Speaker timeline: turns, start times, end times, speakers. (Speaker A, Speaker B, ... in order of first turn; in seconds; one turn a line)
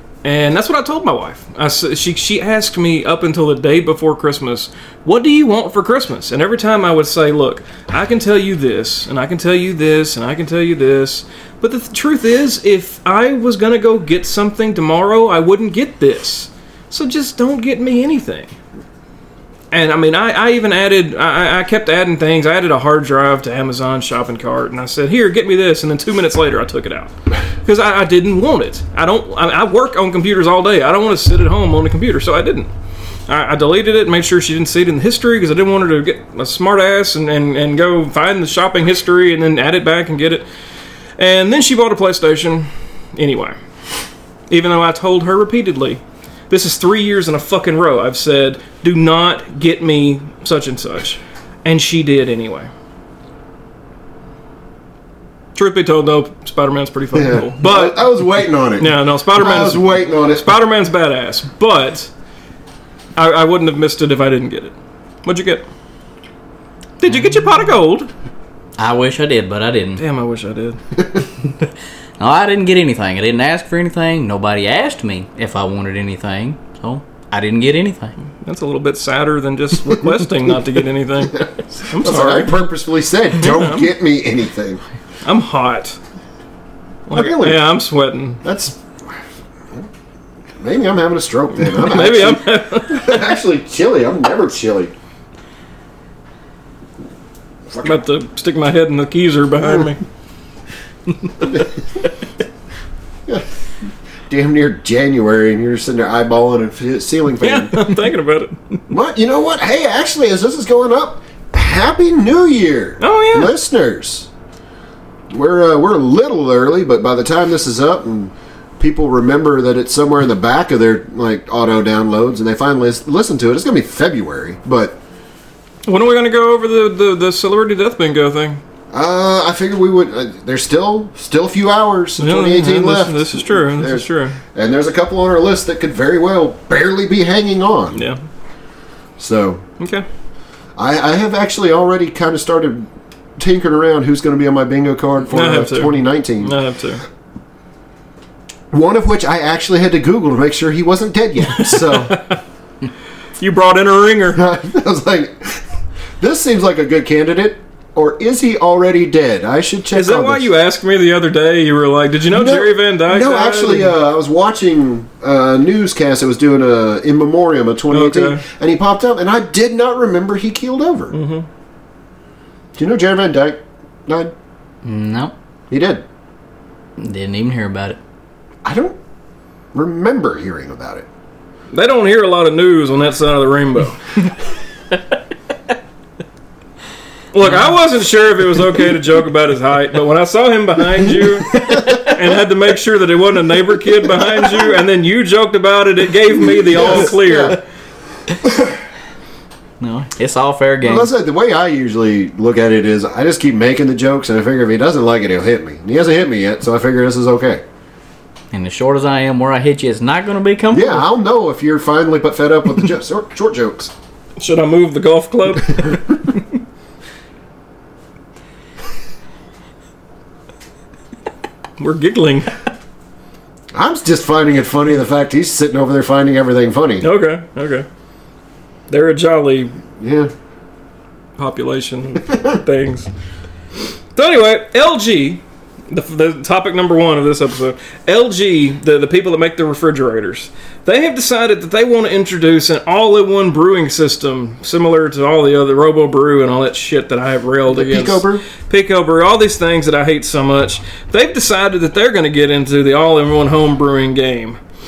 Speaker A: 0.2-18.5
Speaker A: 19.7-32.7
Speaker A: 33.3-40.5
Speaker A: 41.2-43.6
Speaker A: 44.5-52.7
Speaker A: 55.5-58.1
Speaker B: 57.1-60.5
Speaker A: 58.8-62.1
Speaker A: 63.1-65.7
Speaker A: 67.0-68.1
Speaker C: 68.8-70.0
Speaker A: 70.0-70.8
Speaker C: 72.2-78.2
Speaker A: 78.4-82.6
Speaker B: 81.8-84.8
Speaker A: 83.4-83.9
Speaker A: 85.2-86.0
Speaker A: 87.1-88.4
Speaker B: 87.1-87.7
Speaker B: 88.4-89.2
Speaker B: 90.6-94.9
Speaker A: 91.5-93.3
Speaker B: 97.7-98.0
Speaker A: 97.8-100.0
Speaker B: 101.4-101.7
Speaker B: 104.3-107.8
Speaker A: 107.4-108.5
Speaker B: 108.9-114.3
Speaker A: 113.0-113.5
Speaker B: 115.3-125.0
Speaker A: 125.8-128.6
Speaker B: 128.9-138.0
Speaker A: 132.2-134.4
Speaker A: 137.9-138.2
Speaker B: 139.2-139.6
Speaker A: 139.8-140.1
Speaker B: 140.8-146.6
Speaker A: 145.3-147.0
Speaker B: 148.7-152.2
Speaker A: 151.6-152.4
Speaker A: 153.4-154.4
Speaker B: 154.3-155.6
Speaker B: 156.2-160.5
Speaker A: 159.9-163.9
Speaker B: 162.3-171.2
Speaker A: 167.9-168.4
Speaker A: 171.1-171.4
Speaker B: 172.8-174.3
Speaker C: 174.8-175.3
Speaker B: 175.7-176.0
Speaker C: 177.0-178.0
Speaker B: 178.6-179.0
Speaker B: 179.7-181.1
Speaker A: 181.7-184.1
Speaker A: 187.3-197.6
Speaker B: 191.6-192.0
Speaker B: 196.7-197.6
Speaker C: 199.8-201.1
Speaker B: 200.8-207.6
Speaker C: 208.5-211.1
Speaker B: 210.7-213.9
Speaker A: 214.4-216.3
Speaker A: 221.8-222.6
Speaker B: 223.7-227.1
Speaker A: 227.0-227.8
Speaker A: 228.9-229.7
Speaker B: 230.0-230.3
Speaker A: 231.4-233.1
Speaker A: 234.1-254.6
Speaker B: 247.7-248.4